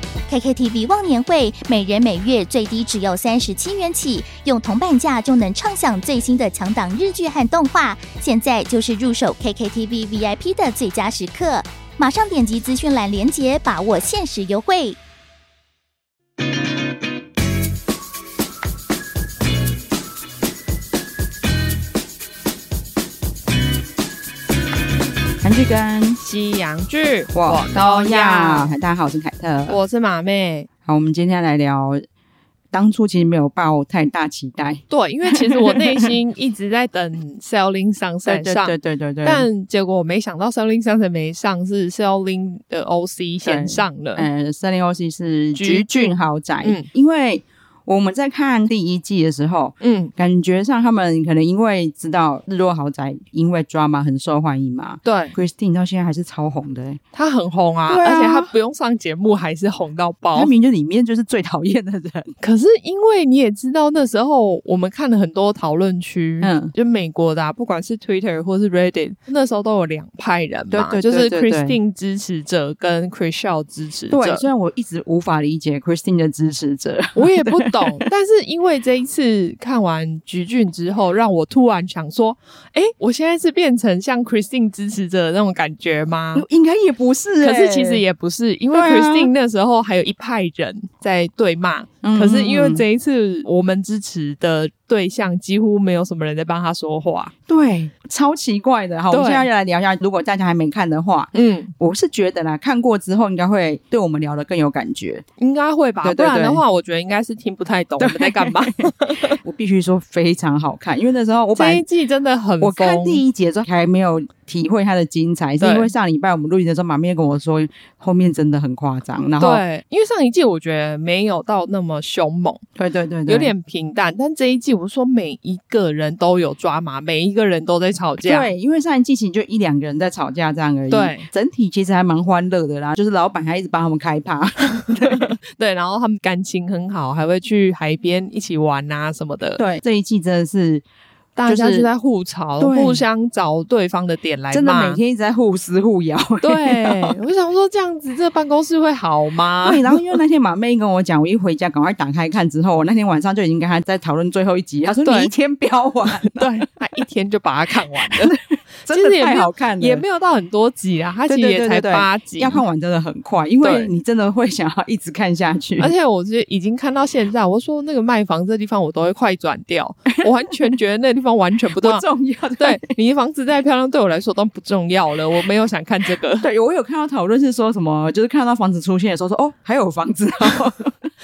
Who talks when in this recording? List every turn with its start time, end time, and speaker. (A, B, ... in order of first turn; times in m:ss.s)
0:00.3-0:15.0 A
0:25.4-0:26.2 B
0:26.2-0:28.8 C
0:27.3-0:29.8 B
0:29.7-0:30.7 C
0:30.8-0:32.0 B
0:32.7-0:36.1 B
0:34.9-0:44.3 C
0:38.2-0:39.5 B
0:43.4-0:57.0 B
0:45.6-0:46.9 C
0:49.8-0:50.1 C
0:55.0-0:55.3 C
0:57.1-1:00.5 C
0:57.9-0:58.5 B
1:00.3-1:02.3 B
1:02.4-1:14.4 C
1:06.4-1:06.7 B
1:10.7-1:11.8 B
1:14.1-1:18.0 B
1:17.2-1:26.4 C
1:26.3-1:28.0 B
1:27.4-1:37.3 C
1:28.7-1:29.3 B
1:32.0-1:32.8 B
1:37.5-1:45.2 B
1:39.1-1:39.5 C
1:41.3-1:41.7 C
1:45.4-1:49.4 C
1:46.0-1:46.6 B
1:48.0-1:48.7 B
1:49.4-1:51.8 B
1:51.6-1:53.2 C
1:52.6-1:59.6 B
1:55.6-1:55.9 C
1:59.4-2:02.6 C
2:02.8-2:03.5 B
2:03.2-2:08.5 C
2:08.2-2:15.3 B
2:10.9-2:11.3 C
2:15.1-2:19.6 C
2:19.6-2:20.8 B
2:21.4-2:25.0 C
2:21.5-2:21.9 B
2:22.6-2:23.1 B
2:24.5-2:27.2 B
2:26.4-2:30.0 C
2:29.6-2:36.5 B
2:35.0-2:35.3 C
2:36.3-2:38.3 C
2:38.0-2:40.0 B
2:38.9-2:42.6 C
2:41.3-2:45.9 B
2:43.6-2:43.9 C
2:45.8-2:52.0 C
2:50.3-2:50.7 B
2:51.8-2:52.8 B
2:52.6-2:56.5 C
2:56.4-3:00.9 B